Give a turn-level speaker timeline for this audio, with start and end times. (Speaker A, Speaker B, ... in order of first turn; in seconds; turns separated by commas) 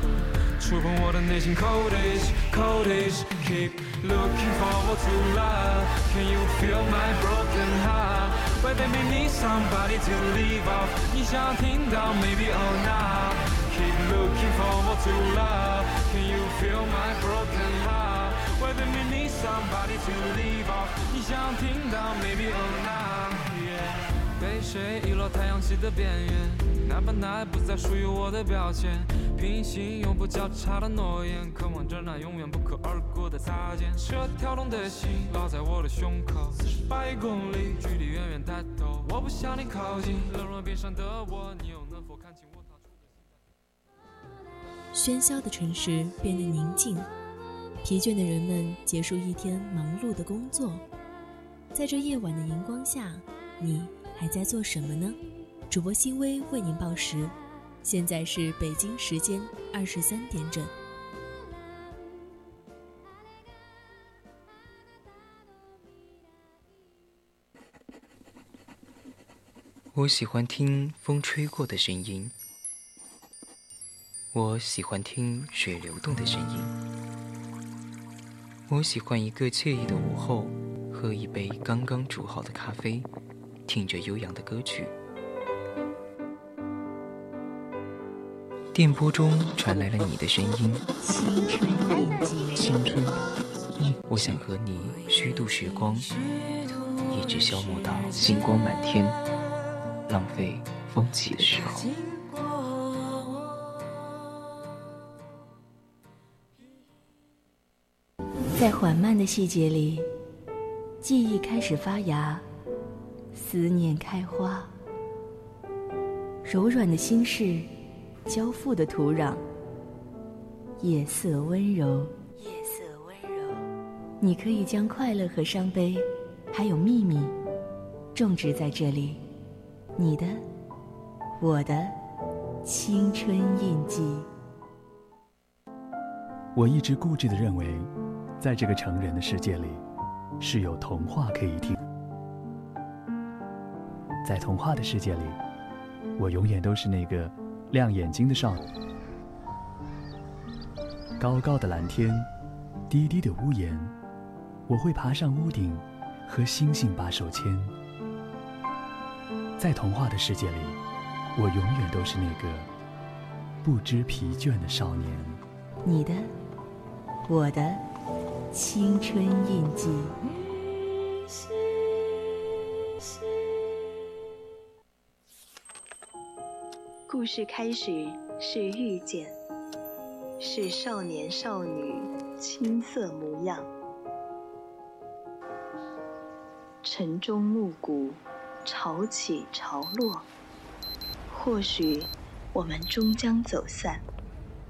Speaker A: 0.6-23.7, Speaker A: 24.4-42.8, Speaker B: 44.9-47.1, Speaker B: 47.8-50.8, Speaker B: 51.7-60.7, Speaker C: 69.9-72.3, Speaker C: 74.3-76.7, Speaker C: 78.7-83.1, Speaker C: 83.7-84.9, Speaker C: 88.7-90.9, Speaker B: 91.0-91.9, Speaker C: 92.5-93.2, Speaker C: 93.8-96.1, Speaker C: 97.0-99.2, Speaker C: 100.1-101.9, Speaker D: 108.5-110.1, Speaker D: 111.0-112.5, Speaker D: 113.3-114.7, Speaker D: 116.5-117.7, Speaker D: 118.3-119.4, Speaker D: 120.8-123.7, Speaker D: 124.2-127.4, Speaker D: 128.1-129.2, Speaker D: 130.0-130.4, Speaker D: 131.4-131.9, Speaker D: 132.6-134.3, Speaker E: 136.6-139.8, Speaker E: 140.4-141.8, Speaker E: 144.2-145.4, Speaker E: 146.2-148.7, Speaker E: 151.2-152.3, Speaker E: 152.9-153.9, Speaker E: 154.7-157.7, Speaker E: 159.6-160.8, Speaker E: 161.3-162.7, Speaker E: 163.6-165.4, Speaker D: 165.8-166.3, Speaker D: 167.3-167.8, Speaker D: 168.5-170.2, Speaker F: 177.1-179.4, Speaker F: 180.4-183.7, Speaker F: 186.8-190.3, Speaker F: 191.3-194.0